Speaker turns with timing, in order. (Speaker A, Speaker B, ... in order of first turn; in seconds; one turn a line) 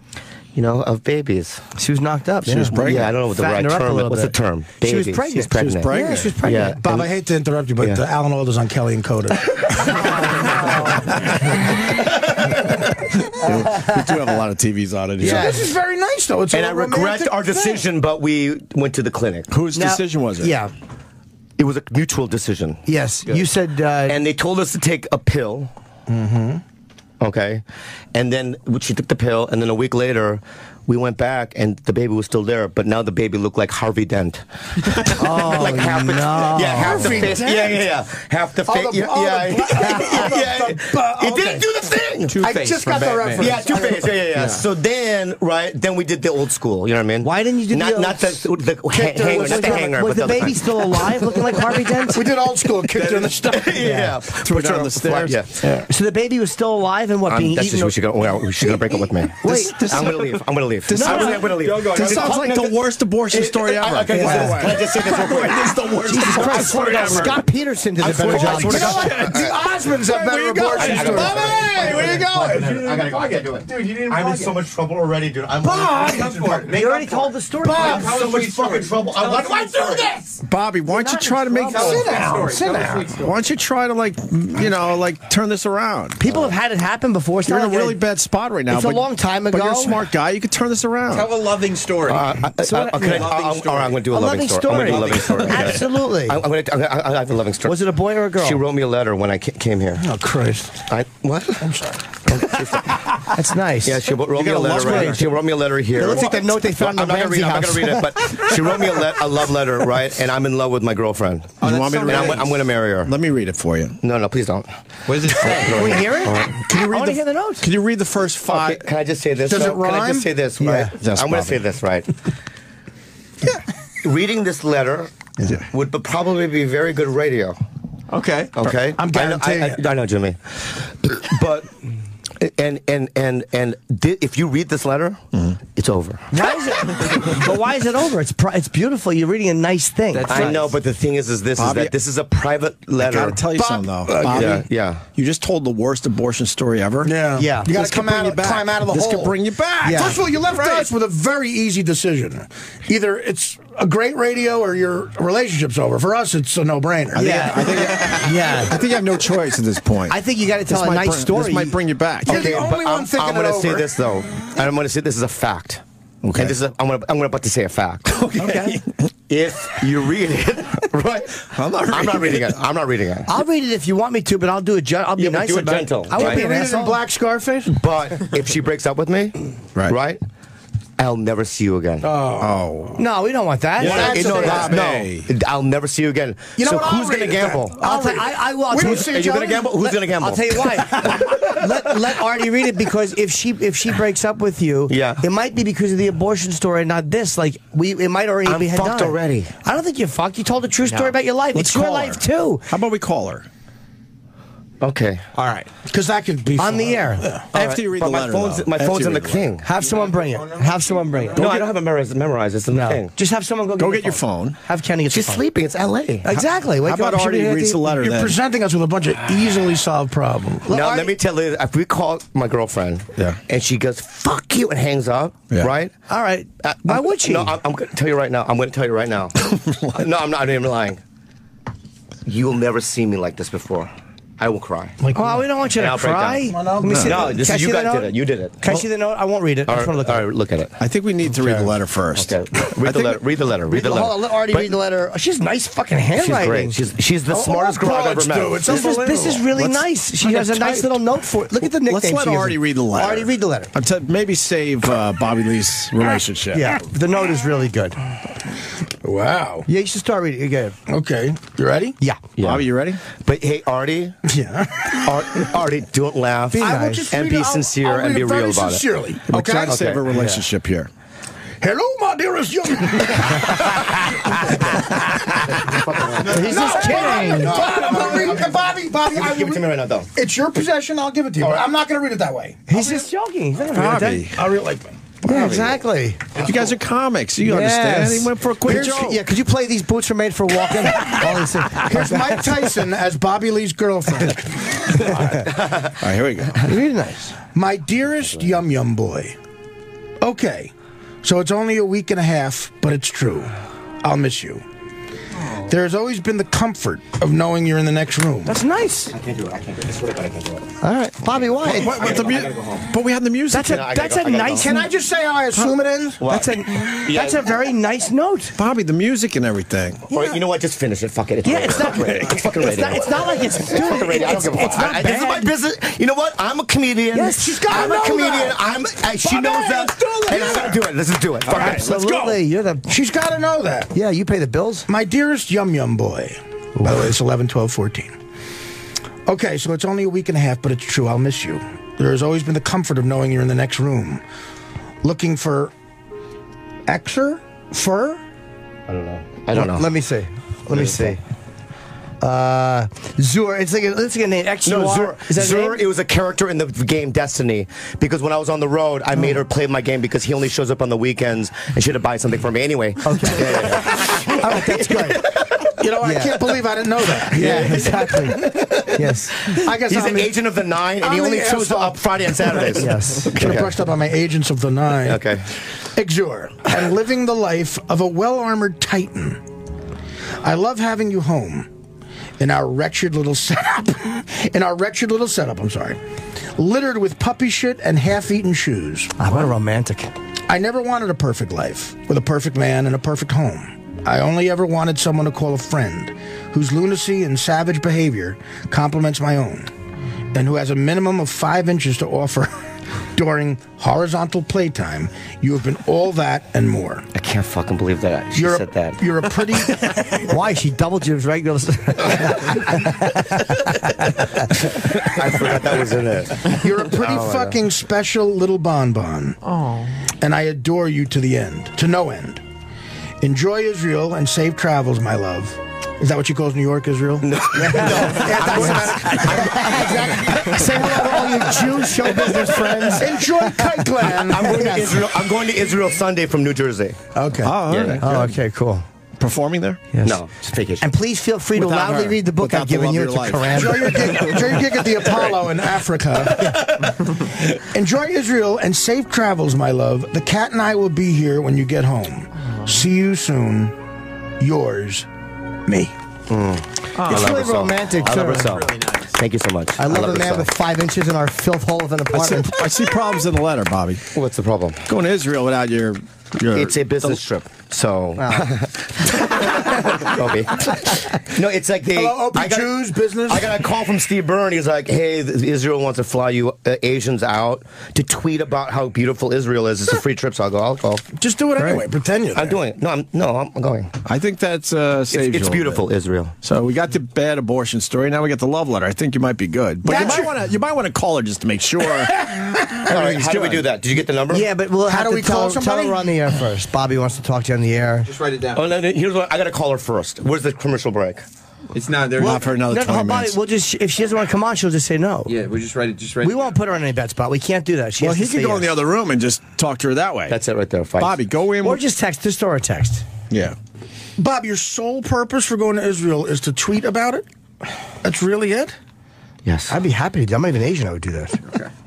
Speaker A: 0.5-1.6
Speaker B: 1.8-6.8
Speaker C: 2.5-3.1
Speaker A: 2.7-7.1
Speaker C: 5.6-6.4
Speaker D: 6.8-11.4
Speaker A: 7.8-8.0
Speaker B: 10.0-11.1
Speaker A: 12.1-12.8
Speaker C: 13.3-15.6
Speaker B: 13.5-14.0
Speaker A: 15.2-15.7
Speaker D: 15.2-17.8
Speaker A: 16.5-19.5
Speaker C: 19.5-20.5
Speaker B: 19.7-20.7
Speaker A: 21.6-22.8
Speaker B: 22.9-24.2
Speaker A: 24.1-25.7
Speaker D: 26.1-26.6
Speaker A: 27.2-42.4
Speaker B: 35.1-37.3
Speaker D: 36.6-37.8
Speaker D: 38.6-41.7
Speaker E: 42.3-43.6
Speaker D: 42.4-44.2
Speaker A: 43.4-51.4
Speaker B: 47.2-48.4
Speaker D: 48.9-50.0
Speaker B: 49.0-52.2
Speaker D: 52.1-53.9
Speaker E: 53.0-53.3
Speaker A: 53.4-55.5
Speaker B: 53.8-54.1
Speaker C: 54.4-55.8
Speaker B: 55.9-57.9
Speaker A: 57.3-67.3
Speaker B: 59.4-60.3
Speaker C: 60.9-67.3
Speaker B: 60.9-61.5
Speaker E: 61.6-62.2
Speaker B: 64.1-64.8
Speaker E: 65.3-67.3
Speaker B: 66.0-69.0
Speaker A: 68.0-69.5
Speaker C: 68.3-72.2
Speaker D: 68.5-74.4
Speaker E: 70.7-73.1
Speaker A: 70.7-80.4
Speaker E: 74.1-74.5
Speaker D: 75.6-76.6
Speaker E: 75.8-76.8
Speaker B: 76.7-78.2
Speaker E: 77.7-80.2
Speaker C: 80.5-82.2
Speaker B: 80.9-82.5
Speaker E: 81.7-83.4
Speaker D: 81.8-83.1
Speaker C: 83.1-86.5
Speaker B: 86.2-88.0
Speaker C: 87.4-91.3
Speaker B: 88.7-90.0
Speaker E: 91.1-92.4
Speaker A: 92.0-100.1
Speaker B: 92.6-93.3
Speaker E: 93.0-94.0
Speaker B: 94.1-96.4
Speaker E: 94.8-95.7
Speaker B: 97.7-98.6
Speaker D: 100.0-100.8
Speaker A: 100.9-103.1
Speaker D: 101.6-102.1
Speaker B: 103.3-105.3
Speaker A: 103.8-113.1
Speaker C: 104.3-105.2
Speaker B: 105.9-108.5
Speaker C: 111.6-114.0
Speaker E: 111.6-112.5
Speaker A: 114.0-114.7
Speaker E: 115.1-116.0
Speaker A: 115.3-116.5
Speaker B: 115.6-117.7
Speaker C: 116.6-118.8
Speaker A: 118.5-122.1
Speaker D: 119.5-120.3
Speaker B: 120.6-120.9
Speaker C: 121.0-121.6
Speaker A: 124.0-127.6
Speaker E: 128.1-128.6
Speaker A: 128.6-136.4
Speaker D: 129.0-129.8
Speaker B: 136.3-140.5
Speaker E: 140.1-140.7
Speaker A: 140.3-143.4
Speaker C: 141.6-141.9
Speaker C: 143.0-147.2
Speaker D: 143.5-144.6
Speaker A: 144.2-145.0
Speaker D: 147.0-157.8
Speaker B: 147.3-147.8
Speaker C: 147.7-150.9
Speaker B: 149.8-150.2
Speaker C: 157.1-162.5
Speaker B: 157.1-158.8
Speaker B: 160.1-161.8
Speaker D: 162.2-163.9
Speaker A: 162.2-168.8
Speaker E: 168.3-168.7
Speaker C: 168.4-168.9
Speaker A: 169.3-173.3
Speaker C: 171.5-172.6
Speaker B: 173.3-177.0
Speaker A: 175.2-176.5
Speaker D: 176.1-177.8
Speaker A: 177.7-180.2
Speaker A: 181.0-182.1
Speaker D: 182.0-182.6
Speaker C: 182.4-183.0
Speaker B: 183.0-184.7
Speaker C: 183.8-185.3
Speaker A: 183.8-187.8
Speaker D: 183.8-184.8
Speaker D: 186.6-189.7
Speaker B: 187.8-202.6
Speaker A: 188.8-191.6
Speaker D: 191.0-191.4
Speaker A: 194.9-195.2
Speaker A: 198.4-199.5
Speaker C: 201.5-203.4
Speaker A: 204.8-205.2
Speaker E: 205.3-205.7
Speaker D: 205.8-207.5
Speaker B: 206.6-207.3
Speaker C: 207.5-209.6
Speaker A: 207.5-209.6
Speaker B: 209.6-211.5
Speaker D: 209.8-211.4
Speaker A: 211.3-213.1
Speaker C: 211.4-211.7
Speaker B: 212.7-215.4
Speaker C: 213.8-214.6
Speaker A: 215.1-216.3
Speaker B: 216.2-217.8
Speaker C: 216.3-218.4
Speaker D: 217.9-220.7
Speaker B: 220.7-221.1
Speaker A: 220.7-225.9
Speaker B: 226.1-227.5
Speaker A: 226.6-231.0
Speaker C: 229.4-230.0
Speaker A: 232.2-235.0
Speaker D: 235.0-235.4
Speaker B: 235.1-240.2
Speaker A: 235.7-238.6
Speaker D: 236.5-237.1
Speaker C: 236.9-237.2
Speaker A: 239.7-240.8
Speaker C: 240.8-243.2
Speaker A: 242.2-244.7
Speaker B: 243.7-246.8
Speaker A: 246.2-249.0
Speaker D: 247.3-249.4
Speaker B: 248.7-253.7
Speaker A: 250.2-250.9
Speaker C: 250.5-250.8
Speaker C: 251.6-256.7
Speaker B: 256.5-258.0
Speaker D: 259.0-259.7
Speaker B: 259.7-260.8
Speaker D: 260.9-262.0
Speaker A: 262.4-264.1
Speaker C: 262.4-263.0
Speaker D: 264.2-265.4
Speaker A: 265.0-268.8
Speaker B: 266.5-267.1
Speaker D: 266.6-269.9
Speaker C: 269.3-270.9
Speaker A: 269.6-270.0
Speaker B: 270.1-270.4
Speaker D: 271.6-283.1
Speaker A: 274.4-274.8
Speaker A: 275.5-280.1
Speaker B: 276.2-277.6
Speaker A: 281.4-281.7
Speaker B: 282.7-284.2
Speaker C: 283.7-284.4
Speaker D: 284.3-285.0
Speaker A: 285.2-285.7
Speaker B: 285.2-286.4
Speaker C: 285.3-285.7
Speaker C: 286.4-289.2
Speaker A: 286.4-286.7
Speaker B: 287.4-292.5
Speaker D: 291.7-295.4
Speaker B: 295.0-295.5
Speaker A: 295.5-296.0
Speaker C: 296.0-296.6
Speaker B: 296.6-297.4
Speaker D: 297.5-299.4
Speaker D: 300.2-300.7
Speaker D: 301.2-304.6
Speaker D: 305.7-308.6
Speaker B: 308.4-309.1
Speaker A: 309.1-310.8
Speaker B: 310.8-312.0
Speaker A: 311.3-312.9
Speaker C: 311.6-313.8
Speaker B: 313.5-314.8
Speaker A: 313.6-314.8
Speaker D: 314.5-316.2
Speaker A: 316.2-317.6
Speaker B: 316.2-318.6
Speaker C: 318.6-320.0
Speaker A: 320.1-331.9
Speaker B: 321.4-325.5
Speaker C: 321.6-322.4
Speaker B: 327.1-327.8
Speaker D: 327.3-328.6
Speaker D: 329.1-330.9
Speaker C: 331.5-331.9
Speaker D: 331.5-333.9
Speaker B: 331.5-332.9
Speaker B: 333.9-334.9
Speaker D: 334.9-338.1
Speaker B: 336.8-337.1
Speaker D: 339.3-344.2
Speaker D: 345.0-345.7
Speaker D: 346.9-348.2
Speaker A: 348.9-349.9
Speaker B: 349.5-351.2
Speaker A: 350.7-351.2
Speaker B: 352.2-355.8
Speaker A: 354.6-365.8
Speaker B: 363.0-365.2
Speaker D: 365.8-368.4
Speaker B: 366.0-366.4
Speaker A: 367.2-373.7
Speaker B: 367.3-369.4
Speaker D: 369.4-370.4
Speaker D: 371.0-372.8
Speaker B: 372.8-373.4
Speaker D: 373.3-375.3
Speaker A: 375.0-375.5
Speaker D: 375.8-379.4
Speaker D: 380.4-381.7
Speaker D: 382.4-386.0
Speaker D: 386.6-389.1
Speaker B: 389.2-390.1
Speaker D: 390.5-399.7
Speaker D: 400.3-407.0
Speaker A: 407.1-409.0
Speaker D: 408.3-410.3
Speaker B: 410.2-414.9
Speaker A: 414.5-417.6
Speaker D: 416.5-419.4
Speaker E: 419.4-419.9
Speaker D: 420.2-422.4
Speaker D: 423.2-431.0
Speaker A: 427.2-433.2
Speaker B: 427.7-433.7
Speaker D: 433.0-435.1
Speaker A: 434.0-437.1
Speaker D: 437.1-437.6
Speaker C: 437.4-438.3
Speaker A: 437.6-438.0
Speaker B: 438.0-438.8
Speaker C: 439.2-439.8
Speaker B: 439.9-440.2
Speaker A: 440.0-440.9
Speaker B: 440.8-444.2
Speaker C: 441.7-444.5
Speaker D: 443.5-446.5
Speaker D: 447.1-453.7
Speaker D: 454.4-455.1
Speaker D: 455.6-455.9
Speaker A: 456.3-460.5
Speaker C: 457.0-457.4
Speaker B: 457.1-458.5
Speaker E: 458.1-459.1
Speaker B: 459.8-462.6
Speaker C: 462.1-464.0
Speaker A: 464.1-464.9
Speaker C: 464.9-467.2
Speaker A: 466.5-481.0
Speaker B: 468.2-468.5
Speaker D: 471.9-473.5
Speaker D: 481.2-482.6
Speaker A: 482.3-484.0
Speaker C: 484.0-485.8
Speaker A: 485.1-486.3
Speaker C: 486.4-492.3
Speaker D: 489.8-490.4
Speaker D: 492.2-492.9
Speaker A: 492.9-494.5
Speaker C: 492.9-493.6
Speaker B: 494.3-498.1
Speaker D: 494.8-496.1
Speaker E: 498.1-498.6
Speaker A: 498.5-501.2
Speaker E: 501.7-502.6
Speaker C: 502.2-503.4
Speaker B: 502.2-505.3
Speaker E: 505.2-506.5
Speaker B: 506.2-508.7
Speaker C: 508.0-510.4
Speaker A: 510.3-511.1
Speaker C: 511.0-511.8
Speaker B: 511.6-513.0
Speaker C: 513.3-513.5
Speaker D: 514.2-517.2
Speaker D: 518.0-518.7
Speaker A: 519.4-519.7
Speaker B: 519.7-521.4